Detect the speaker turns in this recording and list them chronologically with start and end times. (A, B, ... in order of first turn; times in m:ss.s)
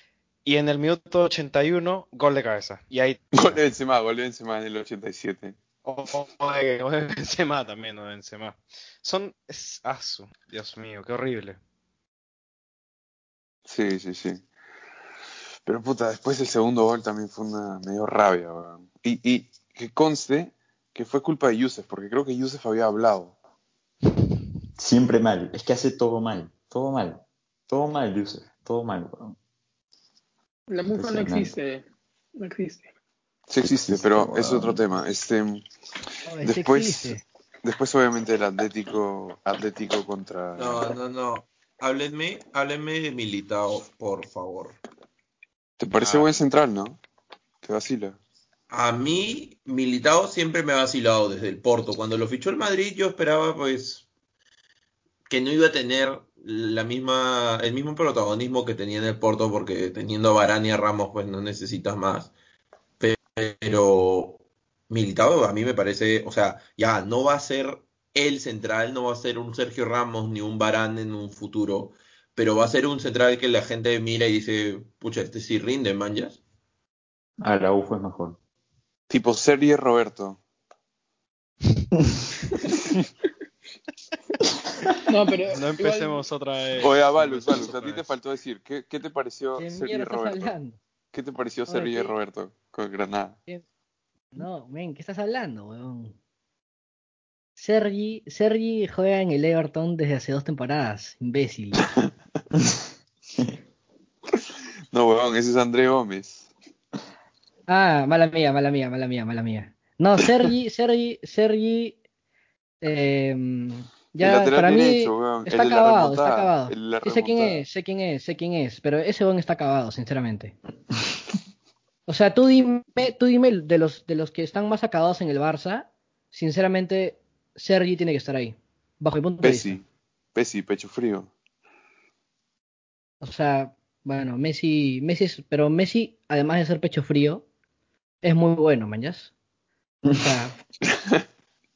0:00.4-0:03.6 A
0:03.3-0:05.6 B
0:05.8-0:11.6 A
0:13.6-0:14.4 B
0:15.6-0:23.3 B
0:24.8-0:29.4 C
0:30.7-0:31.8 D
0:30.9-0:31.5 C
0:32.4-0:32.9 D
0:33.5-0:35.7 B
0:33.6-0:34.8 C
0:36.3-0:37.2 E
0:36.4-0:40.9 B
0:40.6-0:44.8 F
0:45.8-0:47.0 B
0:46.0-0:46.4 A
0:47.6-0:48.2 B
0:48.7-0:54.0 F
0:55.3-1:02.3 F
1:03.0-1:16.4 F
1:17.4-1:18.4 C
1:19.1-1:20.4 B
1:21.9-1:22.2 C
1:25.0-1:26.2 D
1:25.5-1:28.0 A
1:26.8-1:30.5 B
1:29.6-1:30.8 E
1:31.1-1:33.4 B
1:31.7-1:32.2 E
1:34.3-1:36.1 E
1:37.6-1:41.8 E
1:42.5-1:43.6 C
1:44.3-1:46.5 B
1:47.7-1:52.0 E
1:52.8-2:00.6 E
1:54.2-1:57.6 B
2:02.1-2:09.8 E
2:09.4-2:09.8 B
2:10.3-2:11.3 B
2:13.2-2:17.4 E
2:18.2-2:19.3 E
2:20.1-2:20.5 E